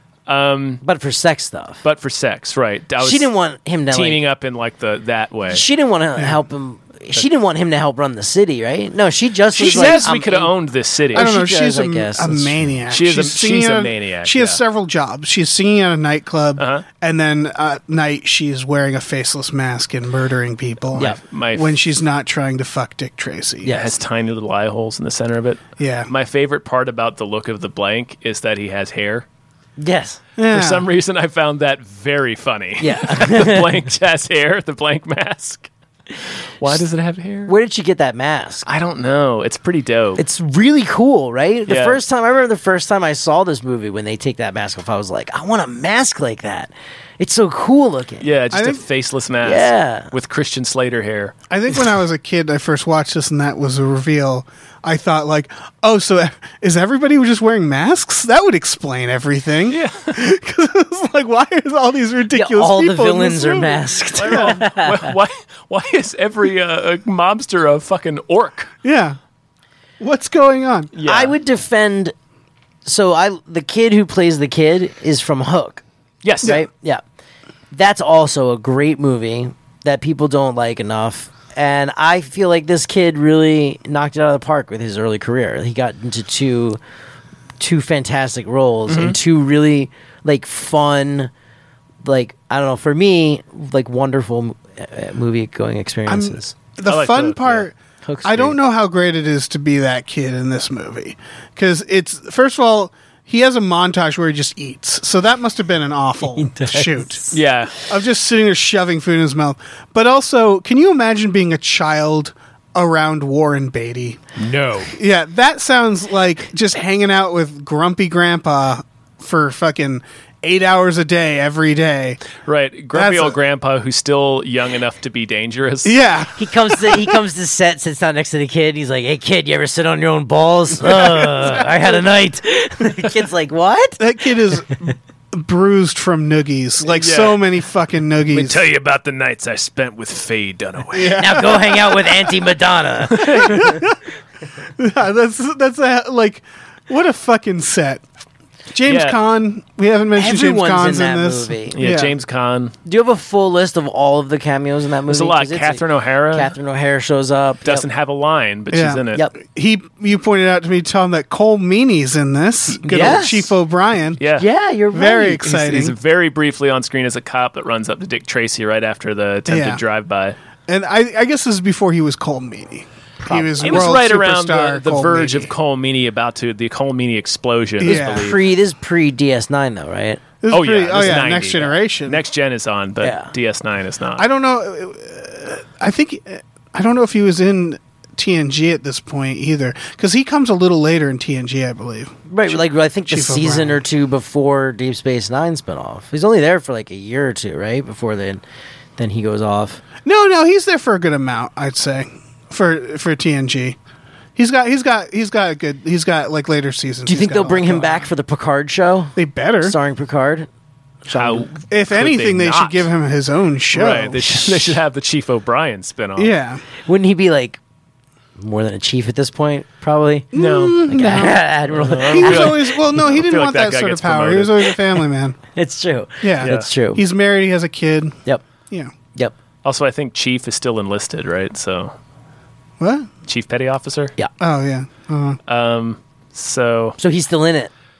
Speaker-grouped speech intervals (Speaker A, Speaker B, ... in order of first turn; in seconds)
Speaker A: 0.3-0.8, 1.8-3.3, 3.9-5.6, 9.6-11.3, 12.9-14.6, 16.6-16.8, 21.0-21.7, 23.7-29.2, 30.5-35.7, 36.6-37.5, 38.6-40.2, 41.7-42.0, 48.2-51.3, 59.7-60.2, 64.1-68.7, 70.9-71.3, 76.2-76.6, 88.9-89.2, 96.8-97.7, 107.3-107.7, 114.4-114.9, 122.4-126.0, 136.9-137.4, 138.3-141.9, 143.1-143.6, 148.8-149.2, 151.7-152.7, 155.1-156.5, 157.6-159.2, 162.8-163.2, 164.2-164.4, 165.5-170.4, 173.6-178.4, 180.5-184.2, 211.1-212.9, 213.7-216.3, 220.3-220.8, 221.7-224.8, 226.4-226.7, 229.6-231.9, 233.2-234.1, 235.5-237.0
Speaker B: 0.8-1.8, 3.0-4.2, 5.5-10.5, 11.1-12.6, 23.6-23.9, 29.8-30.2, 32.8-33.9, 37.5-38.7, 40.2-48.3, 49.4-50.1, 62.3-65.1, 71.0-72.1, 72.8-75.8, 76.4-77.0, 77.7-86.8, 87.6-91.3, 92.0-96.5, 98.0-98.5, 106.2-107.4, 126.3-134.0, 141.1-143.8, 150.2-151.8, 152.8-157.8, 162.9-163.5, 164.4-165.5, 173.2-174.0, 177.8-180.2, 183.0-183.3, 192.3-198.4, 199.0-199.8, 207.1-210.5, 211.1-211.5, 216.8-217.6, 218.4-220.3, 220.8-222.6, 225.5-227.0, 237.0-237.7
Speaker C: 9.6-10.0, 11.1-23.7, 25.8-26.1, 30.4-30.9, 48.5-48.8, 51.5-64.6, 68.8-69.2, 70.0-70.9, 96.1-107.3, 107.9-114.2, 114.9-122.2, 122.9-123.4, 125.8-127.2, 134.0-138.6, 140.9-141.7, 143.2-144.0, 144.8-148.0, 148.7-152.1, 158.7-164.2, 164.9-165.9, 169.5-169.8, 170.7-175.5, 177.8-178.3, 180.4-182.2, 184.2-193.8, 200.0-203.8, 204.3-208.0, 209.2-209.8, 211.7-214.8, 216.2-216.6, 220.3-221.4, 222.1-225.4, 226.2-228.2, 232.8-233.1, 234.4-235.4